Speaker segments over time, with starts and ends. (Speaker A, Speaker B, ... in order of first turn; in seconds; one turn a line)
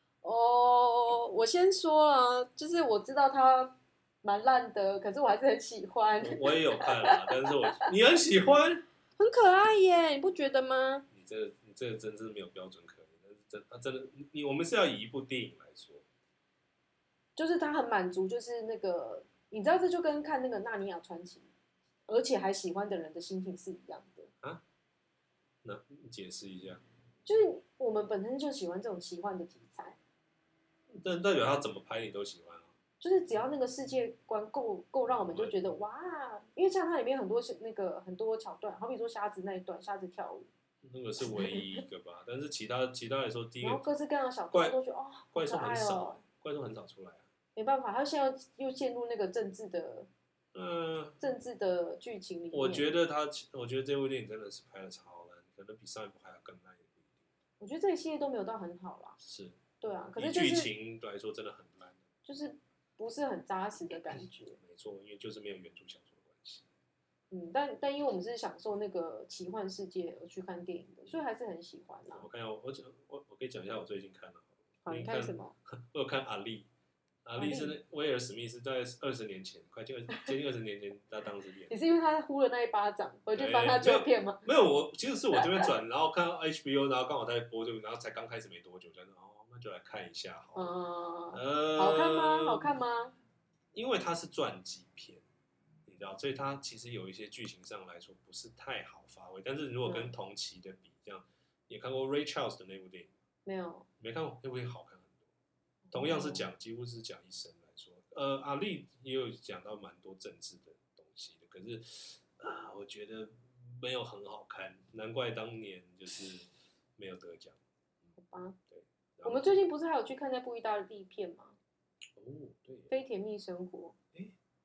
Speaker A: 0.2-7.8
Speaker B: 6.2-8.8
Speaker A: 9.2-11.1
Speaker B: 11.1-16.0
Speaker A: 17.4-21.5
Speaker A: 22.1-24.3
Speaker B: 25.6-26.8
Speaker A: 27.2-29.9
Speaker B: 30.9-32.7
Speaker A: 33.0-40.5
Speaker B: 35.1-35.5
Speaker B: 40.8-43.8
Speaker A: 41.2-41.8
Speaker A: 43.6-46.2
Speaker B: 45.3-47.2
Speaker A: 47.5-50.1
Speaker B: 50.5-51.2
Speaker A: 51.2-52.9
Speaker B: 52.5-57.2
Speaker A: 57.6-59.2
Speaker B: 59.2-59.6
Speaker A: 59.8-60.7
Speaker B: 60.1-62.0
Speaker A: 62.2-64.6
Speaker B: 64.6-66.7
Speaker A: 67.3-72.3
Speaker B: 72.1-76.7
Speaker A: 74.8-75.5
Speaker B: 77.2-81.7
Speaker A: 77.4-77.8
Speaker A: 81.7-84.5
Speaker B: 83.3-90.7
Speaker A: 85.4-85.7
Speaker A: 90.5-93.1
Speaker B: 91.3-92.7
Speaker B: 93.7-95.2
Speaker B: 95.8-103.1
Speaker A: 99.8-100.1
Speaker A: 103.5-103.9
Speaker B: 104.0-105.2
Speaker A: 105.9-106.5
Speaker B: 105.9-117.6
Speaker A: 118.2-118.6
Speaker B: 118.7-119.6
Speaker A: 119.2-121.6
Speaker B: 122.1-122.9
Speaker A: 122.9-123.9